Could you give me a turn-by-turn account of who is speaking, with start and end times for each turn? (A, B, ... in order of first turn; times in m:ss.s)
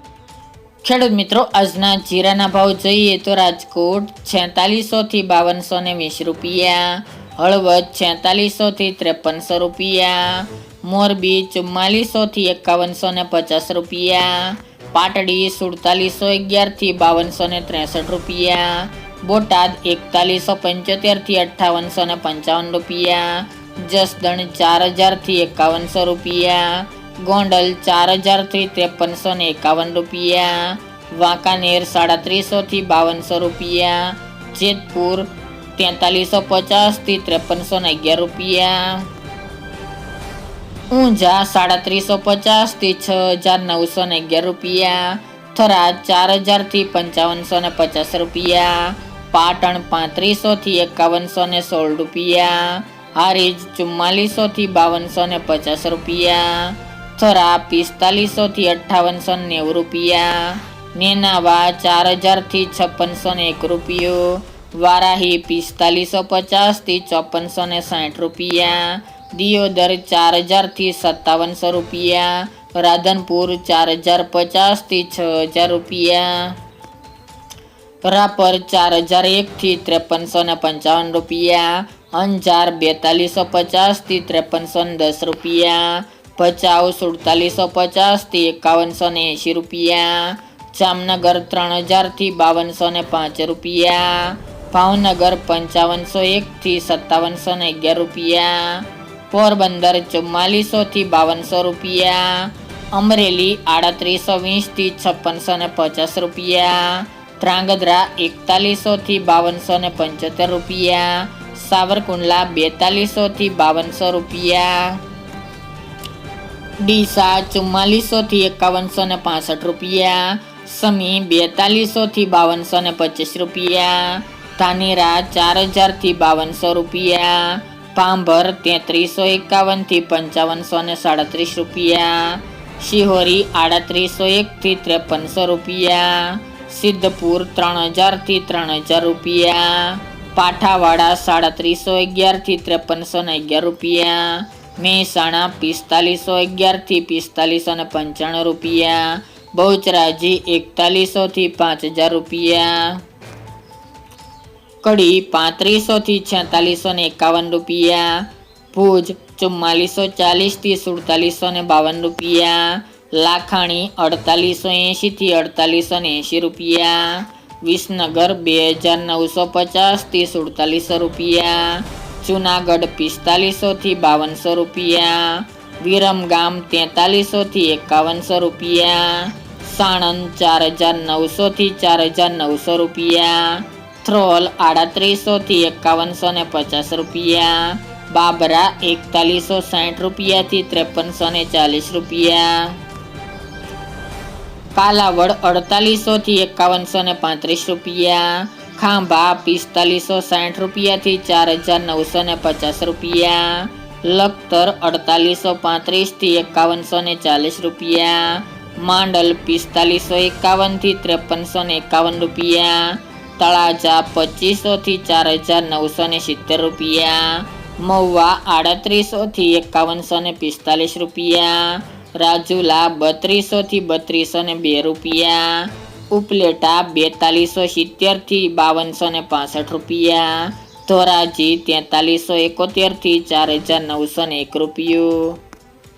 0:00.8-0:39.0 A
0:40.9-1:16.6 A
1:18.0-1:55.0 A
1:56.8-2:33.0 A
2:34.8-3:12.8 A
3:14.8-3:55.4 A